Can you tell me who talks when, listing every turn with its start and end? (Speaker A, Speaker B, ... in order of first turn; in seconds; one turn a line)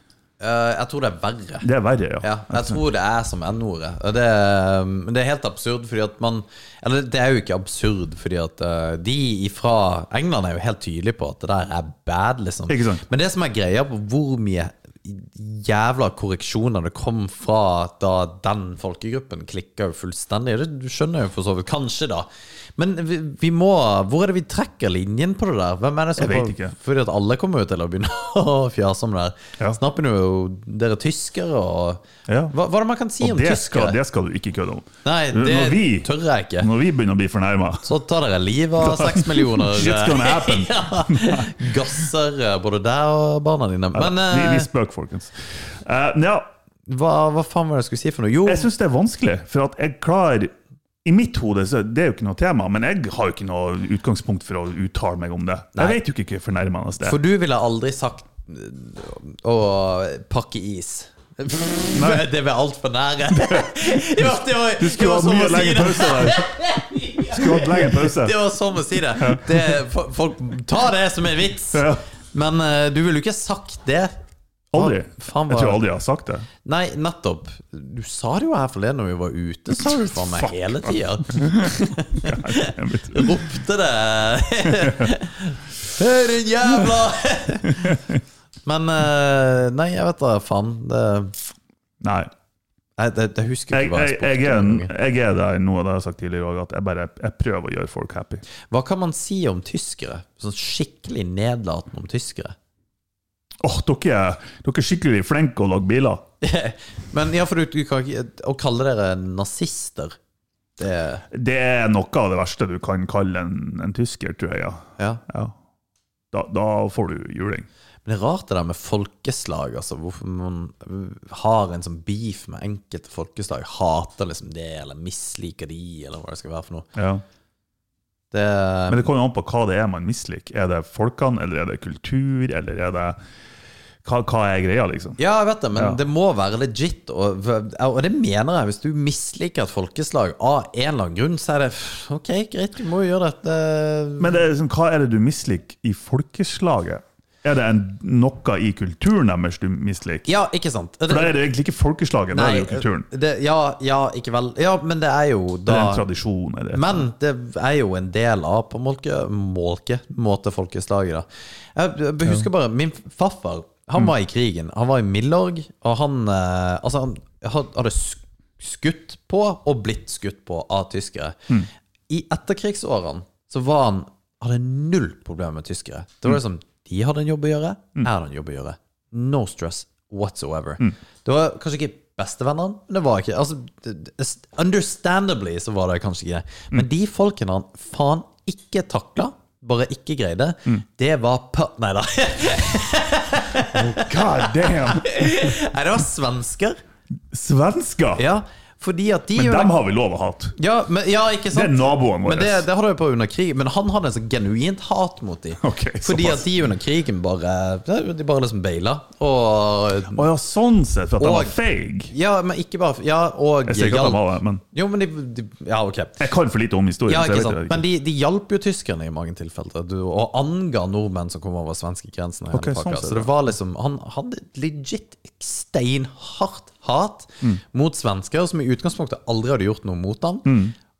Speaker A: 0.4-1.7
Speaker B: 1.6-2.8
Speaker A: 2.2-34.0
Speaker B: 12.7-13.0
Speaker B: 26.2-26.7
Speaker B: 32.3-32.5
Speaker B: 33.2-37.9
Speaker A: 35.0-36.7
Speaker A: 37.8-44.7
Speaker B: 38.8-41.6
Speaker B: 43.9-46.5
Speaker A: 46.9-48.7
Speaker B: 48.4-50.5
Speaker B: 51.0-57.2
Speaker A: 55.7-56.0
Speaker A: 57.0-74.2
Speaker B: 61.9-62.3
Speaker B: 64.8-68.4
Speaker B: 69.2-69.8
Speaker B: 71.7-72.0
Speaker B: 74.7-76.5
Speaker A: 74.7-75.8
Speaker A: 76.6-88.0
Speaker B: 80.8-81.7
Speaker B: 82.2-83.4
Speaker B: 87.8-88.2
Speaker A: 88.7-91.3
Speaker B: 92.0-92.3
Speaker A: 93.0-94.9
Speaker B: 93.7-98.4
Speaker A: 98.7-102.5
Speaker B: 103.6-106.2
Speaker A: 106.4-110.2
Speaker A: 110.8-111.2
Speaker B: 111.3-115.5
Speaker B: 116.3-117.7
Speaker A: 118.0-126.9
Speaker B: 127.0-127.2
Speaker A: 128.3-129.0
Speaker B: 128.9-133.2
Speaker B: 134.0-135.2
Speaker A: 135.2-144.4
Speaker B: 135.7-136.0
Speaker B: 144.2-150.3
Speaker A: 150.2-151.3
Speaker B: 151.1-153.1
Speaker A: 152.3-156.1
Speaker B: 155.7-157.0
Speaker A: 156.7-196.8
Speaker B: 193.7-195.2
Speaker B: 197.3-198.2
Speaker A: 198.2-199.7
Speaker B: 199.3-200.6
Speaker A: 200.6-210.2
Speaker B: 201.5-202.7
Speaker B: 205.6-206.5
Speaker B: 210.1-212.1
Speaker A: 211.2-211.5
Speaker A: 212.1-216.2
Speaker B: 213.7-214.6
Speaker B: 216.2-217.8
Speaker A: 217.1-230.7
Speaker B: 222.5-223.3
Speaker B: 230.4-230.7